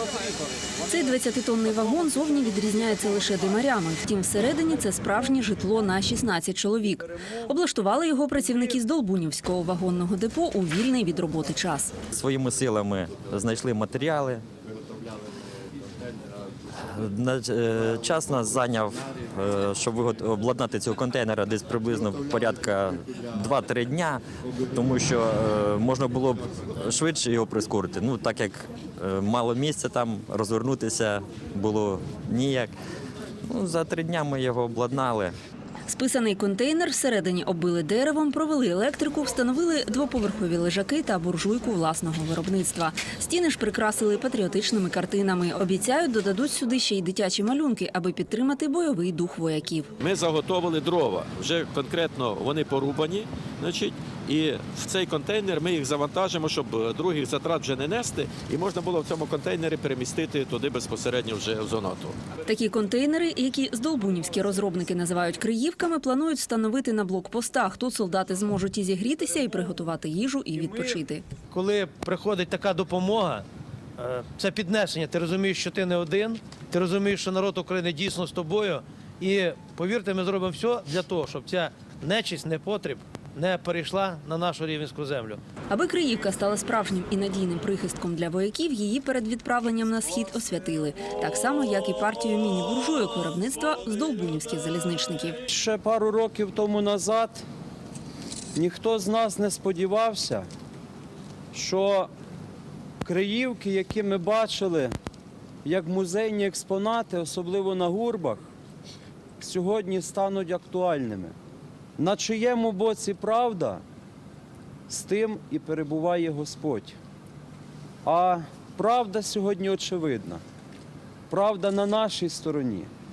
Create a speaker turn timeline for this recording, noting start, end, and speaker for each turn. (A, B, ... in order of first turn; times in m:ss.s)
0:00.8-0:11.9 A
0:12.1-0:14.4 B
0:16.9-0:32.7 B
0:33.5-0:35.3 B
0:35.9-0:49.9 A
0:50.0-1:02.2 C
1:02.5-1:11.2 A
1:11.5-1:13.5 D
1:14.0-1:25.4 D
1:25.7-1:35.4 A
1:35.5-1:37.4 E
1:38.6-1:40.5 E
1:41.5-1:42.1 E
1:43.0-1:44.9 E
1:45.6-1:48.5 E
1:49.4-1:51.3 E
1:52.0-1:53.8 E
1:54.9-1:57.0 E
1:58.0-2:00.4 E
2:01.3-2:02.9 E